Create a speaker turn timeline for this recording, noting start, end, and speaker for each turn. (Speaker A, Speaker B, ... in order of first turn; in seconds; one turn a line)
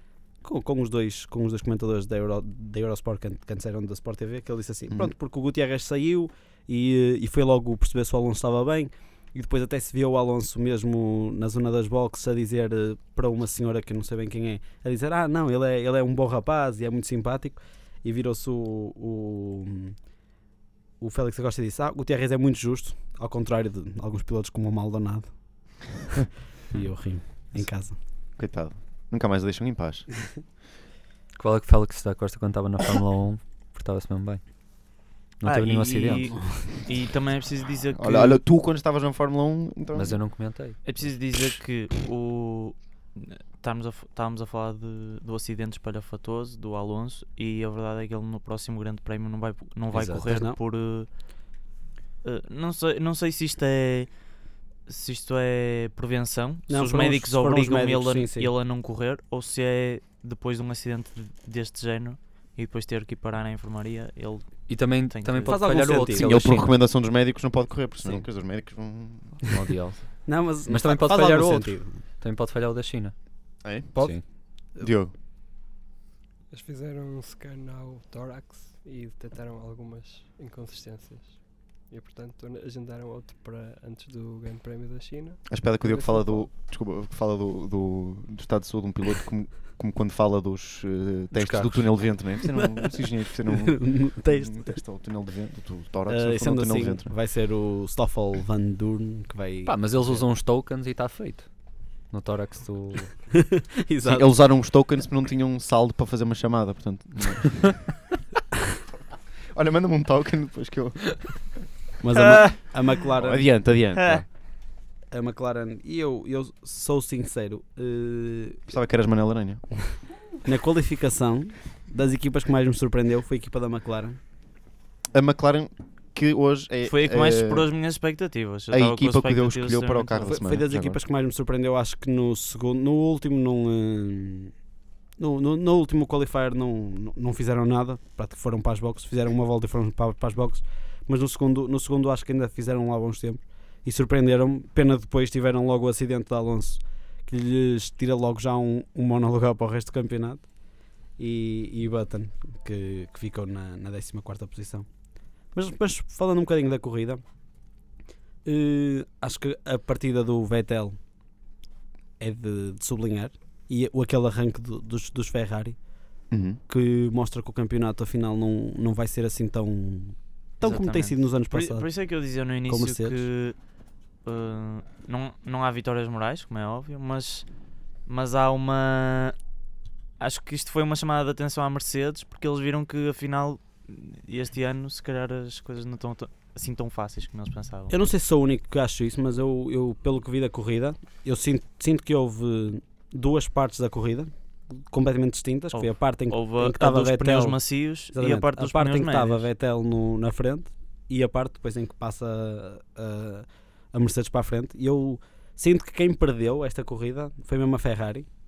Speaker A: 0.4-19.9
Speaker A: 21.0-25.3
Speaker A: 26.7-28.0
Speaker B: 28.4-30.1
Speaker C: 31.4-34.5
Speaker C: 35.4-36.4
Speaker D: 35.4-38.4
Speaker A: 36.4-36.6
Speaker B: 37.9-40.2
Speaker C: 39.9-41.0
Speaker D: 40.8-51.1
Speaker C: 49.9-50.2
Speaker A: 50.2-50.6
Speaker D: 52.2-54.1
Speaker D: 54.9-66.1
Speaker A: 56.7-58.5
Speaker C: 64.7-66.7
Speaker A: 65.5-66.6
Speaker B: 66.1-69.4
Speaker C: 69.5-73.1
Speaker A: 70.2-72.0
Speaker B: 73.6-74.1
Speaker C: 73.9-74.2
Speaker B: 74.8-75.1
Speaker E: 76.5-86.5
Speaker B: 85.5-97.1
Speaker C: 91.3-92.0
Speaker A: 93.5-94.8
Speaker A: 96.1-100.2
Speaker C: 99.7-101.5
Speaker C: 102.1-103.2
Speaker A: 103.4-104.3
Speaker B: 104.0-107.9
Speaker B: 109.5-111.4
Speaker A: 112.0-113.5
Speaker D: 112.2-113.0
Speaker B: 113.2-114.3
Speaker D: 114.0-114.2
Speaker A: 115.1-118.7
Speaker B: 118.7-119.7
Speaker A: 120.4-124.2
Speaker B: 125.1-127.7
Speaker D: 126.8-130.3
Speaker B: 128.7-131.0
Speaker A: 130.2-134.5
Speaker A: 135.2-150.5
Speaker A: 151.2-154.9
Speaker A: 155.5-157.2
Speaker A: 158.4-161.0
Speaker A: 162.2-165.8
Speaker B: 166.3-166.6
Speaker A: 166.7-171.9
Speaker D: 170.6-173.6
Speaker A: 172.7-173.2
Speaker D: 174.2-177.5
Speaker D: 178.1-179.3
Speaker D: 180.2-188.0
Speaker A: 187.9-197.6
Speaker D: 195.7-199.5
Speaker A: 198.1-208.3